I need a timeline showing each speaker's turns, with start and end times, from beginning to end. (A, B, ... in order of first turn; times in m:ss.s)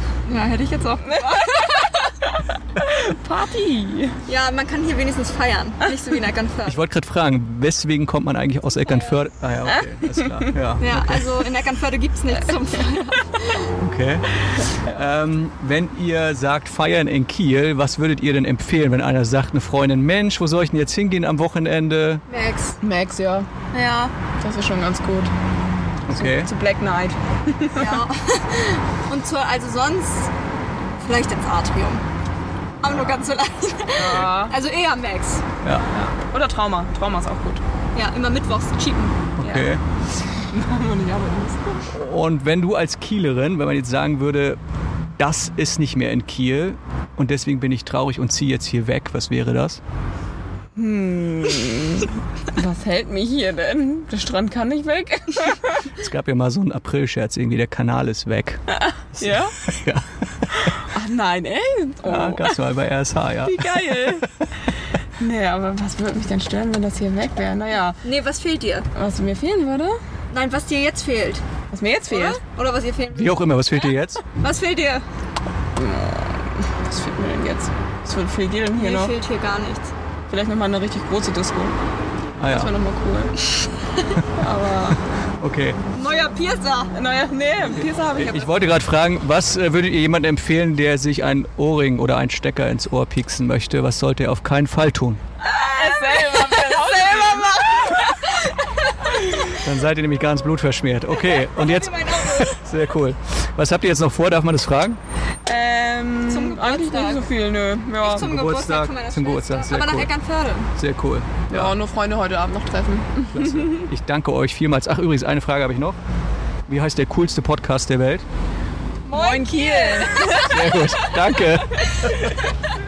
0:00.3-0:01.6 A
0:01.0-0:04.2 B
0:04.2-0:06.8 A
0:06.6-0:11.2 C
0:10.8-0:13.5 A
0:13.8-0:22.2 C
0:22.3-0:22.8 A
0:22.8-0:23.5 B
0:23.7-0:24.1 A
0:24.4-0:25.3 B
0:26.1-0:26.5 C
0:26.1-0:28.0 B
0:27.8-0:30.3 A
0:31.0-0:32.0 A
0:32.8-0:35.4 A
0:33.9-0:34.6 B
0:35.9-0:37.6 B
0:37.9-0:39.2 A
0:39.4-0:39.8 C
0:39.4-0:39.8 B
0:40.5-0:41.9 B
0:41.9-0:44.6 C
0:45.2-0:49.8 C
0:50.8-0:55.8 B
0:55.9-1:00.7 C
0:58.8-0:59.5 B
1:00.8-1:02.6 B
1:02.0-1:03.6 C
1:03.4-1:04.3 B
1:05.2-1:08.0 B
1:08.0-1:08.9 A
1:08.9-1:10.0 B
1:10.3-1:11.4 A
1:11.7-1:12.4 B
1:12.1-1:13.8 A
1:13.1-1:14.2 C
1:14.4-1:15.0 A
1:15.8-1:19.2 B
1:18.7-1:19.9 A
1:20.3-1:21.7 B
1:22.4-1:22.8 C
1:22.4-1:23.4 B
1:24.3-1:25.0 B
1:25.4-1:25.8 C
1:25.9-1:26.9 A
1:26.9-1:28.5 B
1:28.1-1:35.2 C
1:35.6-1:37.9 B
1:35.7-1:38.4 A
1:39.5-1:45.0 C
1:41.1-1:42.6 A
1:45.4-1:48.3 B
1:46.3-1:47.3 A
1:48.0-1:50.1 C
1:48.1-1:50.7 A
1:50.7-1:51.7 C
1:51.5-1:53.8 B
1:53.3-1:56.0 C
1:56.7-1:58.2 C
1:59.0-2:00.4 A
1:59.1-2:00.5 B
2:00.4-2:01.8 C